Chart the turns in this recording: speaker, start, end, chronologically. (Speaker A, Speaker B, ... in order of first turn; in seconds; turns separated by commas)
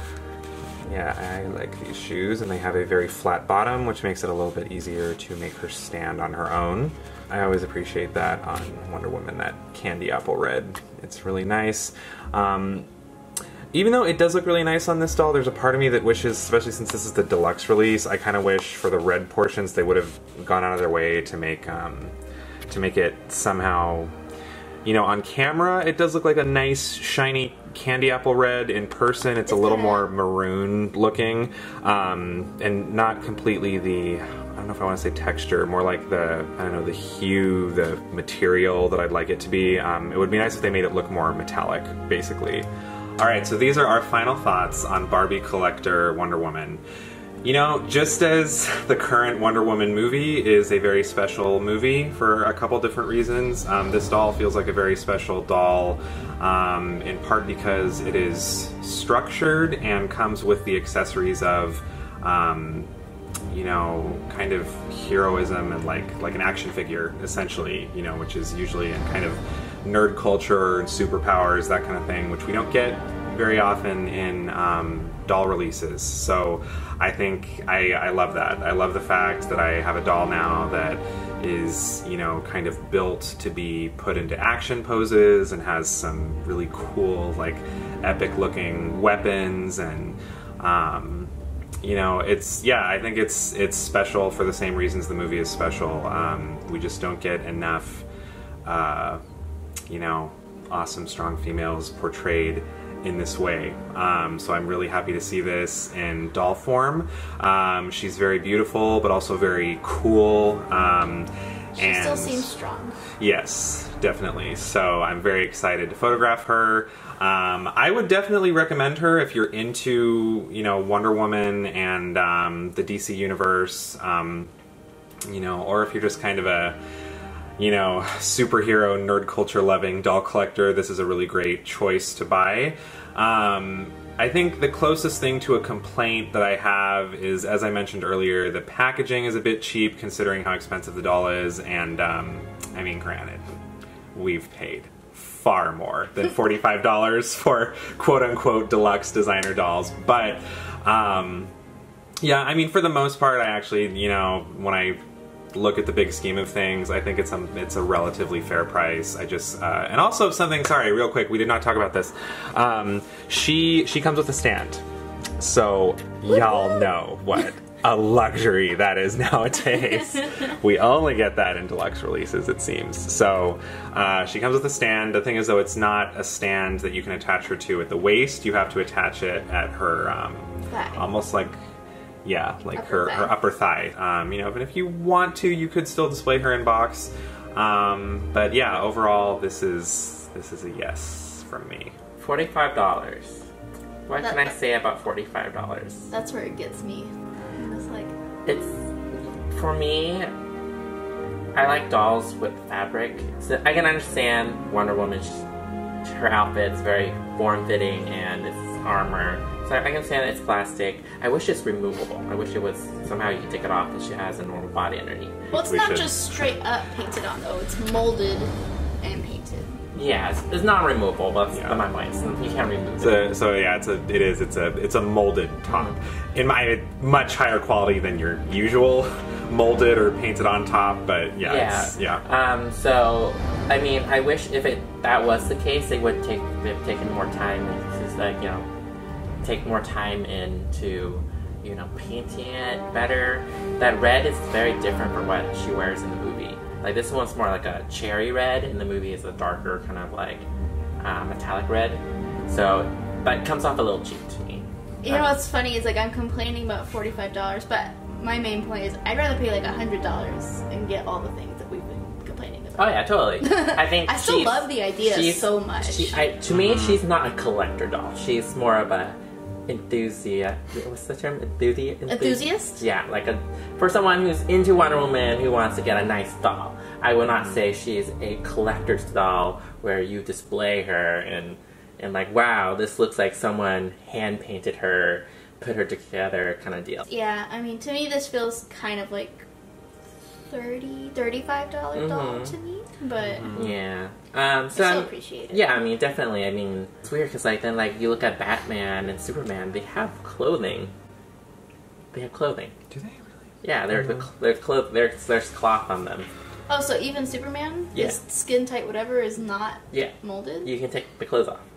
Speaker A: 0.8-12.9, Speaker A: 13.7-22.1, Speaker A: 22.7-24.1, Speaker A: 24.9-46.8, Speaker B: 29.5-30.1, Speaker A: 47.4-62.9, Speaker A: 63.5-98.1, Speaker A: 98.6-99.2, Speaker A: 99.9-112.5, Speaker B: 111.8-113.0, Speaker A: 113.2-124.5, Speaker A: 125.2-126.8, Speaker A: 127.6-143.4, Speaker A: 144.1-151.5, Speaker A: 152.2-155.0, Speaker A: 155.5-164.8, Speaker A: 165.4-181.5, Speaker B: 166.3-166.9, Speaker B: 180.7-181.1, Speaker A: 182.2-191.9, Speaker B: 182.7-183.4, Speaker C: 192.2-193.4, Speaker C: 194.1-196.1, Speaker B: 194.2-194.6, Speaker B: 196.1-198.1, Speaker C: 198.5-200.3, Speaker C: 201.5-205.4, Speaker C: 206.0-215.4, Speaker B: 215.5-219.8, Speaker A: 215.5-216.5, Speaker C: 219.9-223.3, Speaker A: 221.5-221.8, Speaker A: 223.0-232.2, Speaker C: 225.7-226.0, Speaker C: 231.4-238.7, Speaker C: 239.4-250.5, Speaker C: 251.0-255.4, Speaker B: 255.0-266.3, Speaker C: 262.8-269.1, Speaker A: 266.5-267.0, Speaker C: 269.7-287.0, Speaker B: 272.1-272.8, Speaker A: 277.2-277.6, Speaker B: 287.1-289.4, Speaker B: 290.5-293.6, Speaker C: 291.9-292.6, Speaker A: 293.2-293.8, Speaker C: 293.5-300.9, Speaker B: 294.7-295.7, Speaker C: 302.1-302.7, Speaker A: 302.9-303.3, Speaker C: 303.6-306.3, Speaker A: 303.9-304.3, Speaker B: 306.7-310.7, Speaker C: 307.9-308.2, Speaker C: 309.9-311.6